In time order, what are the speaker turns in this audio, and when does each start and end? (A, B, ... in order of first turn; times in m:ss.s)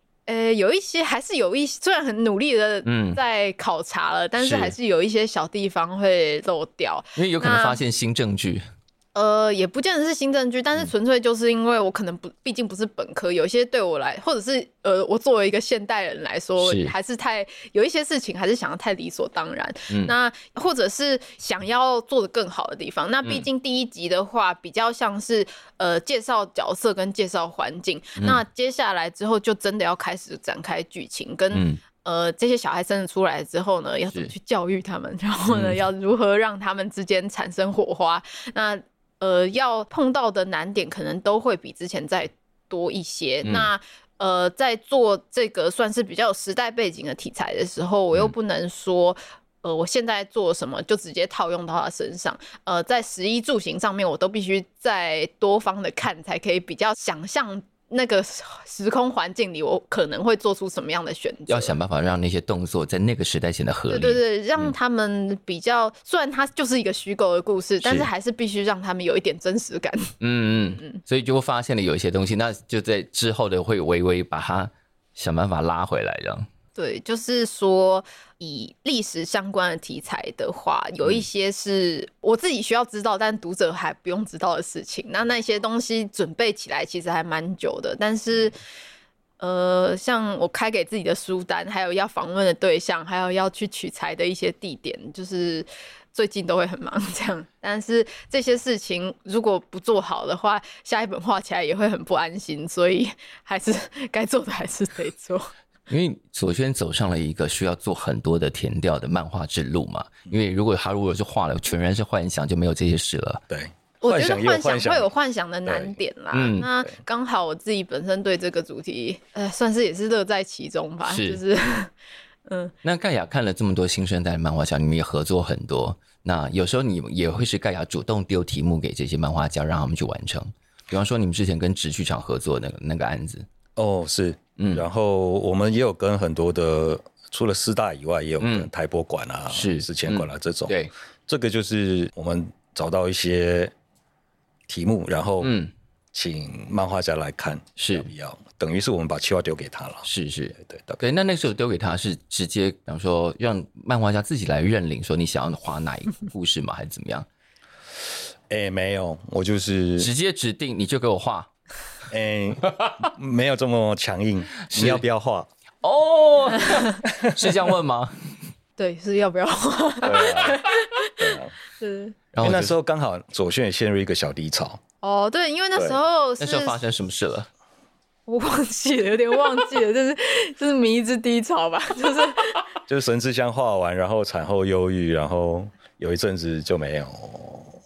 0:00.3-0:07.8 A
0:02.8-0:03.2 B
0:04.4-0:04.8 B
0:07.2-0:08.6 B
0:09.2-1:01.8 A
0:16.6-0:16.9 B
0:31.5-0:31.8 B
0:35.5-0:35.8 B
0:43.4-0:43.7 B
1:01.5-1:04.7 B
1:03.9-1:10.1 A
1:07.8-1:08.1 B
1:10.2-1:16.5 B
1:16.8-1:28.6 A
1:29.4-1:45.5 A
1:45.9-1:53.4 B
1:53.5-1:55.1 C
1:54.0-2:01.9 A
1:55.7-1:56.0 C
1:56.3-1:56.7 B
2:01.1-2:01.4 B
2:02.5-2:02.7 A
2:02.8-2:13.4 B
2:13.8-2:20.8 C
2:14.6-2:14.8 B
2:18.4-2:18.7 B
2:19.5-2:20.9 B
2:21.3-2:23.7 C
2:24.7-2:25.6 C
2:25.4-2:25.7 B
2:26.1-2:30.1 C
2:27.8-2:28.1 B
2:30.1-2:37.3 B
2:30.6-2:31.0 C
2:38.5-2:40.1 C
2:40.0-2:41.5 B
2:42.1-2:45.5 C
2:44.6-2:45.0 B
2:45.8-2:48.3 B
2:47.1-2:47.6 C
2:48.8-2:52.2 A
2:50.0-2:50.6 C
2:51.2-2:51.5 C
2:52.3-2:52.7 B
2:52.4-2:54.8 C
2:55.0-2:56.8 A
2:56.4-2:57.5 B
2:58.3-3:02.6 A
3:02.9-3:07.8 C